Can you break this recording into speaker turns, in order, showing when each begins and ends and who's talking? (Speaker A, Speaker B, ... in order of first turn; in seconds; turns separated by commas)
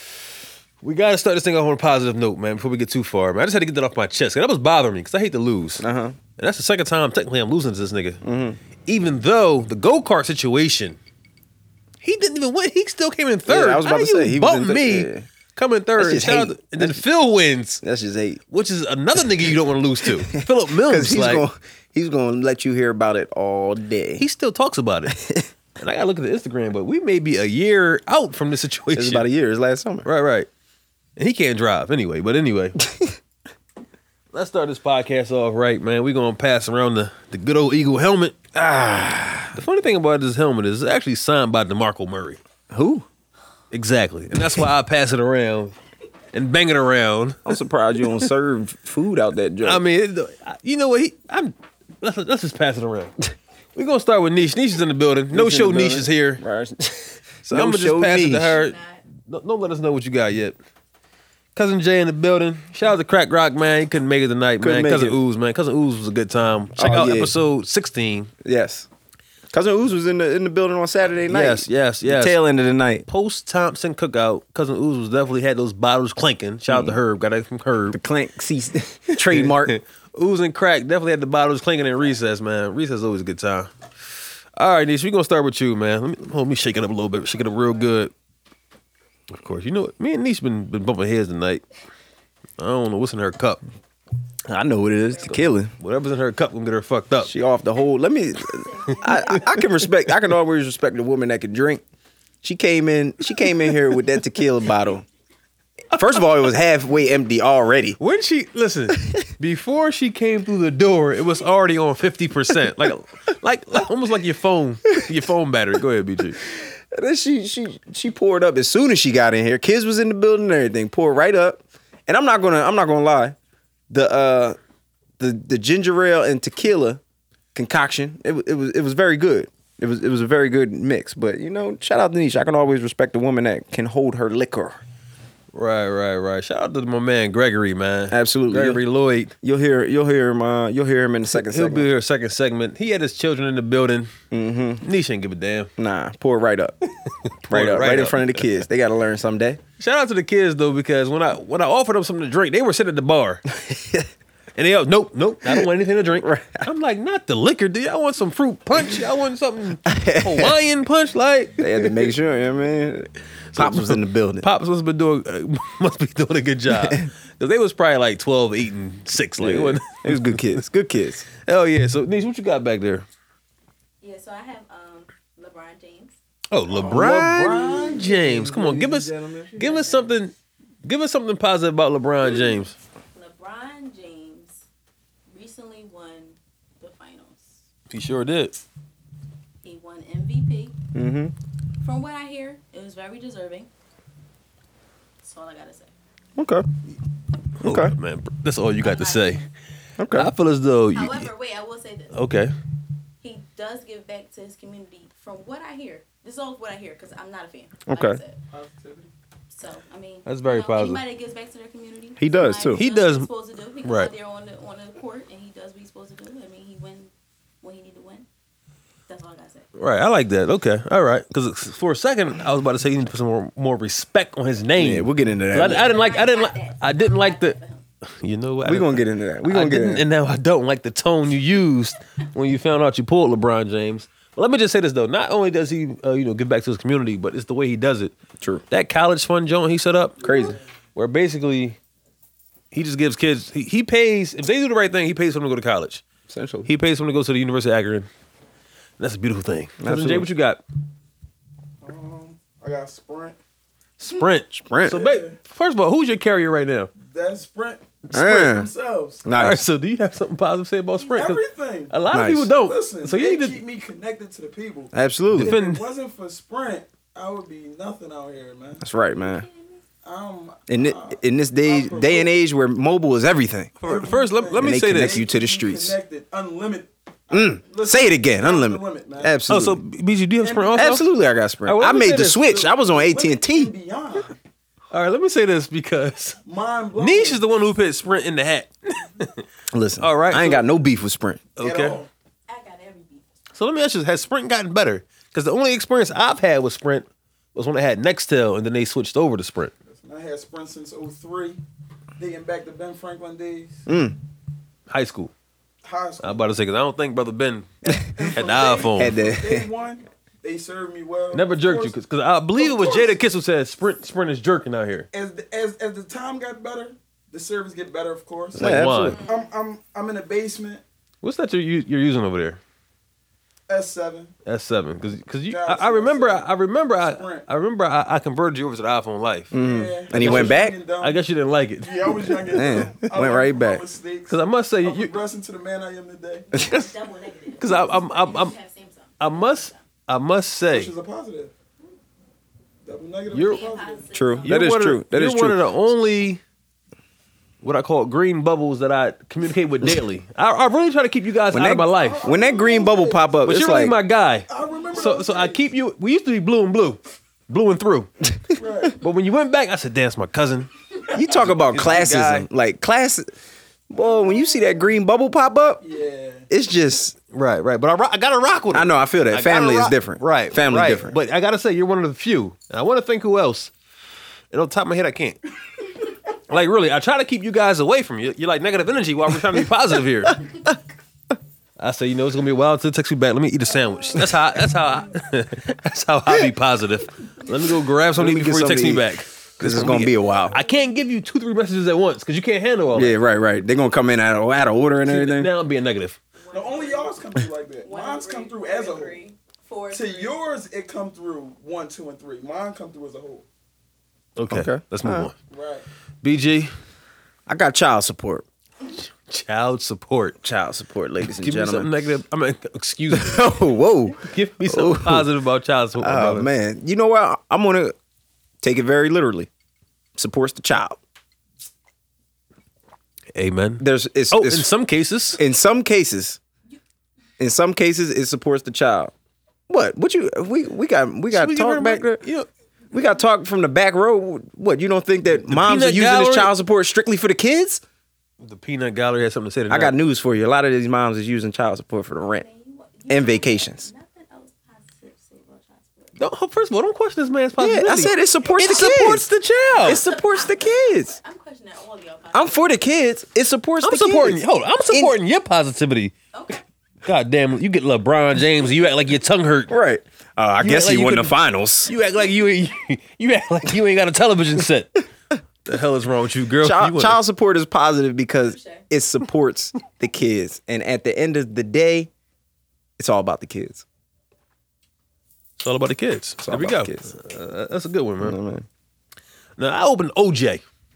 Speaker A: 0.8-5.8, Speaker B: 5.8-6.2, Speaker A: 6.4-8.2, Speaker B: 8.2-8.6, Speaker A: 8.9-11.0, Speaker A: 12.0-17.8, Speaker B: 13.5-15.3, Speaker B: 16.0-17.0, Speaker B: 17.8-18.4, Speaker A: 18.5-21.5, Speaker B: 20.3-24.2, Speaker A: 24.2-25.2, Speaker B: 25.1-25.5, Speaker A: 25.8-29.3, Speaker B: 28.9-30.1, Speaker A: 30.0-30.5, Speaker A: 31.2-32.8, Speaker A: 34.3-38.4, Speaker B: 38.5-39.6, Speaker A: 39.5-42.4, Speaker B: 42.7-43.1, Speaker A: 43.7-45.7, Speaker B: 44.3-44.6, Speaker A: 46.3-47.4, Speaker B: 47.5-49.8, Speaker A: 49.6-53.1, Speaker A: 53.8-56.4, Speaker B: 55.3-58.6, Speaker A: 57.5-60.6, Speaker C: 58.5-59.0, Speaker A: 61.5-68.3, Speaker B: 64.6-65.2, Speaker B: 66.8-67.3, Speaker B: 68.4-68.9, Speaker B: 69.5-73.1, Speaker A: 71.3-72.4, Speaker A: 73.1-78.0, Speaker B: 76.7-77.0, Speaker B: 77.9-79.8, Speaker A: 79.3-83.7, Speaker A: 84.6-88.1, Speaker A: 89.3-91.7, Speaker A: 92.6-93.6, Speaker B: 94.5-95.7, Speaker A: 95.2-97.3, Speaker B: 97.2-101.8, Speaker C: 98.6-99.7, Speaker B: 102.4-105.1, Speaker B: 105.9-108.0, Speaker A: 108.0-116.4, Speaker B: 116.5-123.4, Speaker B: 123.9-124.6, Speaker B: 125.2-127.0, Speaker B: 127.5-134.8, Speaker A: 135.5-139.3, Speaker B: 138.1-138.8, Speaker B: 139.4-141.9, Speaker A: 141.3-144.1, Speaker B: 144.3-144.8, Speaker A: 144.8-145.7, Speaker B: 145.8-146.8, Speaker B: 147.4-149.6, Speaker A: 147.5-148.6, Speaker A: 149.8-153.4, Speaker B: 153.5-154.1, Speaker A: 154.6-162.1, Speaker B: 156.2-156.7, Speaker B: 159.9-160.5, Speaker B: 161.6-164.5, Speaker A: 163.6-170.6, Speaker B: 166.7-167.1, Speaker B: 169.4-171.2, Speaker A: 171.4-173.1, Speaker C: 174.0-176.1, Speaker A: 176.5-182.8, Speaker B: 176.7-179.6, Speaker C: 179.6-180.1, Speaker C: 183.2-184.6, Speaker C: 185.3-187.6, Speaker A: 187.9-188.6, Speaker C: 189.6-190.8, Speaker B: 190.9-191.3, Speaker C: 191.8-193.7, Speaker C: 195.2-195.9, Speaker B: 196.4-196.7, Speaker A: 197.6-199.5, Speaker B: 197.6-197.9, Speaker C: 198.8-199.4, Speaker B: 200.0-200.3, Speaker A: 200.1-201.3, Speaker C: 200.9-202.1, Speaker A: 202.1-202.5, Speaker C: 203.2-208.4, Speaker B: 207.9-208.2, Speaker D: 208.5-209.1, Speaker C: 209.5-217.1, Speaker A: 210.3-211.0, Speaker B: 212.2-212.8, Speaker A: 212.7-213.3, Speaker A: 213.8-214.1, Speaker C: 217.6-218.3, Speaker C: 219.1-219.7, Speaker A: 219.8-227.6, Speaker B: 224.8-225.9, Speaker C: 225.7-227.8, Speaker A: 228.2-238.1, Speaker B: 228.7-230.1, Speaker A: 238.7-240.2, Speaker B: 240.2-240.6, Speaker A: 240.9-241.8, Speaker A: 242.7-246.0, Speaker B: 246.3-246.7, Speaker A: 246.7-248.1, Speaker A: 249.0-250.6, Speaker B: 249.8-250.3, Speaker D: 251.8-253.4, Speaker A: 254.0-256.9, Speaker B: 254.5-255.0, Speaker D: 254.8-255.4, Speaker D: 257.0-259.2, Speaker A: 258.1-258.5, Speaker B: 258.1-258.7, Speaker B: 259.2-259.6, Speaker A: 259.3-263.6, Speaker D: 261.1-262.0, Speaker B: 262.1-262.5, Speaker D: 262.6-268.9, Speaker B: 264.9-265.6, Speaker A: 265.3-265.8, Speaker B: 268.8-269.5, Speaker C: 269.2-269.8, Speaker D: 270.0-272.4, Speaker B: 270.7-273.8, Speaker A: 273.8-275.2, Speaker D: 273.8-279.4, Speaker B: 274.6-276.0, Speaker B: 277.3-279.8, Speaker A: 279.5-281.1, Speaker D: 280.4-280.9, Speaker B: 280.7-283.7, Speaker A: 281.6-282.6, Speaker D: 282.4-284.4, Speaker A: 284.9-286.4, Speaker D: 286.4-287.4, Speaker A: 287.0-289.4, Speaker B: 289.7-291.5, Speaker A: 290.0-290.7, Speaker A: 291.6-292.0, Speaker D: 291.6-292.1, Speaker C: 292.5-293.2, Speaker A: 293.5-299.7, Speaker D: 299.9-301.6, Speaker D: 302.2-303.8, Speaker B: 303.9-304.2, Speaker A: 304.9-305.3, Speaker D: 305.8-306.6, Speaker A: 306.2-309.2, Speaker D: 308.0-312.0, Speaker B: 308.9-309.7, Speaker A: 311.3-315.1, Speaker D: 312.6-313.2, Speaker D: 315.1-320.8, Speaker B: 318.5-319.2, Speaker A: 318.6-319.2, Speaker C: 319.2-319.5, Speaker A: 321.2-322.6, Speaker D: 323.7-324.3, Speaker A: 324.4-329.5, Speaker D: 325.5-327.5, Speaker B: 329.5-330.8, Speaker D: 329.6-331.2, Speaker A: 330.1-332.3, Speaker D: 331.8-336.5, Speaker B: 332.5-333.8, Speaker A: 334.3-335.1, Speaker C: 336.5-339.8, Speaker A: 336.6-336.9, Speaker A: 337.6-338.6, Speaker A: 339.2-340.9, Speaker D: 340.7-341.5, Speaker D: 342.9-344.2, Speaker A: 343.3-343.7, Speaker C: 343.5-344.5, Speaker B: 344.1-345.7, Speaker A: 344.4-346.4, Speaker A: 347.6-352.2, Speaker B: 351.5-354.0, Speaker D: 351.9-353.6, Speaker A: 353.4-358.1, Speaker D: 354.5-355.6, Speaker D: 358.6-359.0, Speaker A: 359.0-362.5, Speaker B: 361.1-363.3, Speaker B: 363.9-365.8, Speaker D: 365.8-366.4, Speaker B: 366.5-367.2, Speaker A: 367.3-373.7, Speaker B: 368.7-371.1, Speaker A: 374.5-375.4, Speaker A: 376.5-380.4, Speaker A: 381.8-393.2, Speaker B: 388.1-390.6, Speaker B: 392.9-395.5, Speaker A: 395.1-396.2, Speaker C: 396.4-397.1, Speaker D: 396.5-399.2, Speaker C: 397.9-400.4, Speaker D: 399.9-403.4, Speaker A: 404.4-405.4, Speaker B: 404.5-405.3, Speaker D: 405.5-405.9, Speaker A: 406.2-406.7, Speaker B: 407.5-408.5, Speaker A: 409.0-410.4, Speaker B: 410.4-411.9, Speaker A: 411.4-413.6, Speaker B: 413.1-415.3, Speaker A: 414.2-416.5, Speaker B: 416.0-417.9, Speaker B: 418.6-419.5, Speaker B: 420.2-421.0, Speaker A: 423.3-425.4, Speaker B: 423.8-424.7, Speaker B: 425.4-426.4, Speaker B: 427.4-429.1, Speaker B: 429.7-432.2, Speaker A: 431.3-432.5, Speaker B: 432.9-437.8, Speaker A: 435.5-436.5, Speaker A: 438.4-439.9, Speaker B: 439.7-442.5, Speaker C: 442.4-446.1, Speaker B: 443.1-443.9, Speaker A: 446.2-450.1, Speaker B: 447.6-451.2, Speaker C: 449.9-452.6, Speaker B: 452.3-455.1, Speaker A: 453.8-456.1, Speaker A: 457.1-459.7, Speaker B: 459.7-461.9, Speaker A: 460.6-465.1, Speaker A: 465.6-467.2, Speaker B: 466.6-472.1, Speaker B: 473.0-473.9, Speaker A: 475.6-478.4, Speaker B: 476.4-477.1, Speaker B: 478.2-478.7, Speaker A: 479.6-480.6